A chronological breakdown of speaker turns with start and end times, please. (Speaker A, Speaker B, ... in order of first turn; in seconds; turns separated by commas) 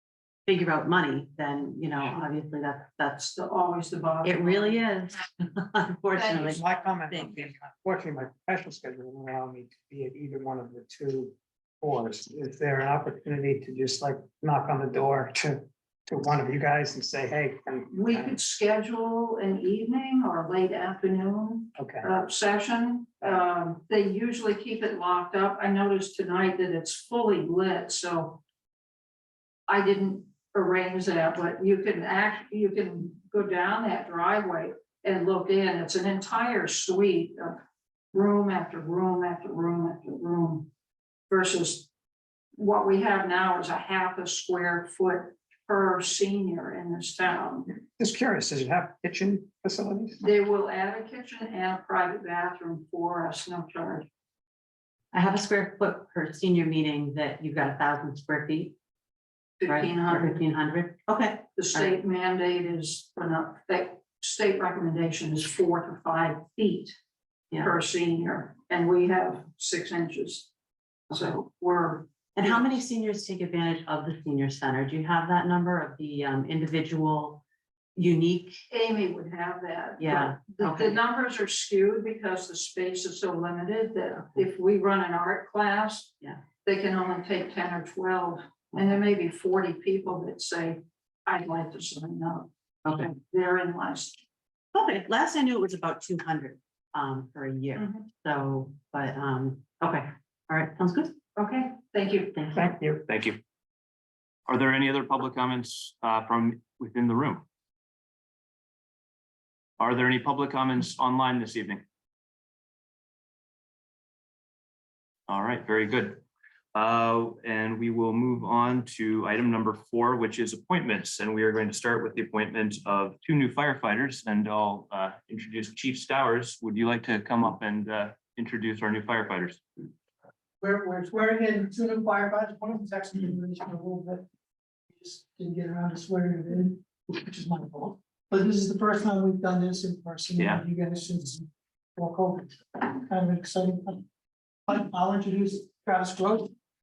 Speaker A: 0.5-3.2, Speaker B: 3.1-4.8, Speaker A: 4.2-6.6, Speaker B: 6.1-6.6, Speaker C: 6.5-18.3, Speaker A: 7.2-7.5, Speaker B: 17.9-28.4, Speaker C: 21.8-22.1, Speaker B: 29.7-37.6, Speaker B: 38.1-40.7, Speaker B: 41.3-41.9, Speaker B: 42.5-47.7, Speaker C: 47.7-50.2, Speaker B: 50.2-54.1, Speaker A: 55.1-58.8, Speaker B: 59.6-60.4, Speaker A: 59.7-61.9, Speaker B: 61.5-66.9, Speaker B: 67.5-70.5, Speaker B: 71.1-72.7, Speaker A: 72.3-77.4, Speaker A: 77.9-78.6, Speaker B: 78.7-94.2, Speaker A: 80.0-81.0, Speaker A: 92.8-93.1, Speaker A: 94.7-101.2, Speaker B: 97.8-98.0, Speaker B: 101.3-102.4, Speaker A: 102.3-102.6, Speaker C: 102.5-103.0, Speaker D: 103.1-103.4, Speaker D: 104.5-107.4, Speaker D: 109.8-111.8, Speaker D: 115.3-116.2, Speaker D: 116.7-129.6, Speaker E: 130.6-134.2, Speaker E: 134.9-141.4, Speaker D: 140.4-140.6, Speaker E: 141.9-144.0, Speaker E: 144.7-146.5